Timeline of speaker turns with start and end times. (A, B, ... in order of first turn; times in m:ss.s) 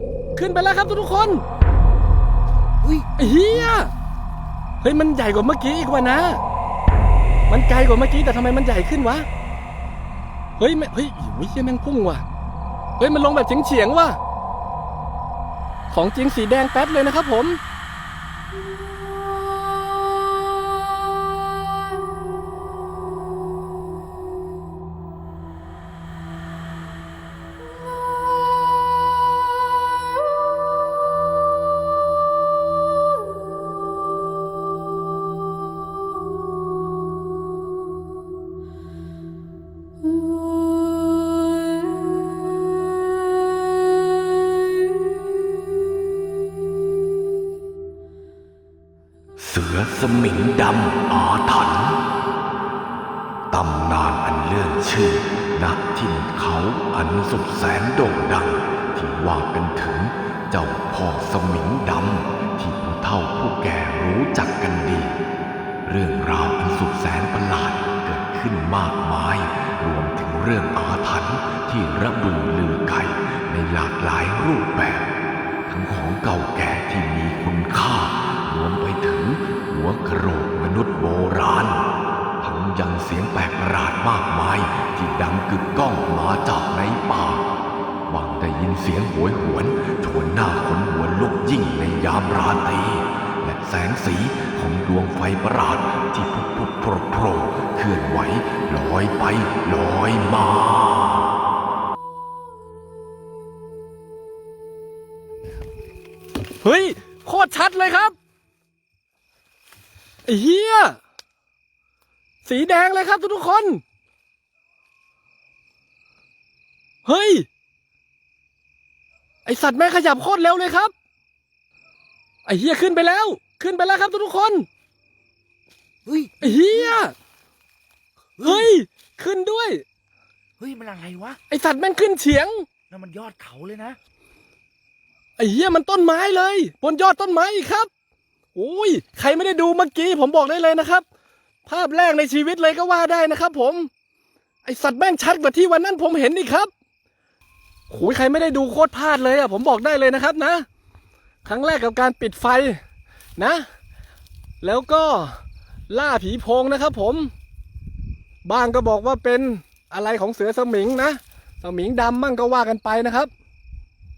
0:00.4-0:01.4 A
0:02.8-0:03.8 B
0:03.2-0:03.9 A
0:04.8-0:06.4 A
0:07.5-0:09.3 A
0:10.6-0:12.2 A
0:13.0-0:14.2 A
0:15.9-0:17.6 A
0:49.4-0:52.0 C
0:53.5-1:05.2 C
1:05.8-1:15.1 C
1:15.7-1:21.8 C
1:22.4-1:27.5 C
1:28.1-1:41.2 C
1:46.6-1:48.2 A
1:50.3-1:51.0 A
1:52.4-1:53.8 A
1:57.0-1:57.5 A
1:59.4-2:00.9 A
2:02.5-2:04.7 A
2:06.0-2:07.0 B
2:06.4-2:07.1 A
2:08.4-2:08.7 B
2:08.4-2:09.8 A
2:10.6-2:11.4 B
2:11.5-2:12.6 A
2:12.9-2:14.0 B
2:15.4-2:17.9 A
2:18.6-2:21.0 A
2:21.7-2:23.9 A
2:24.6-2:26.7 A
2:27.9-2:30.6 A
2:31.4-2:32.8 A
2:33.4-2:33.7 A
2:34.6-2:37.3 A
2:38.4-2:43.3 A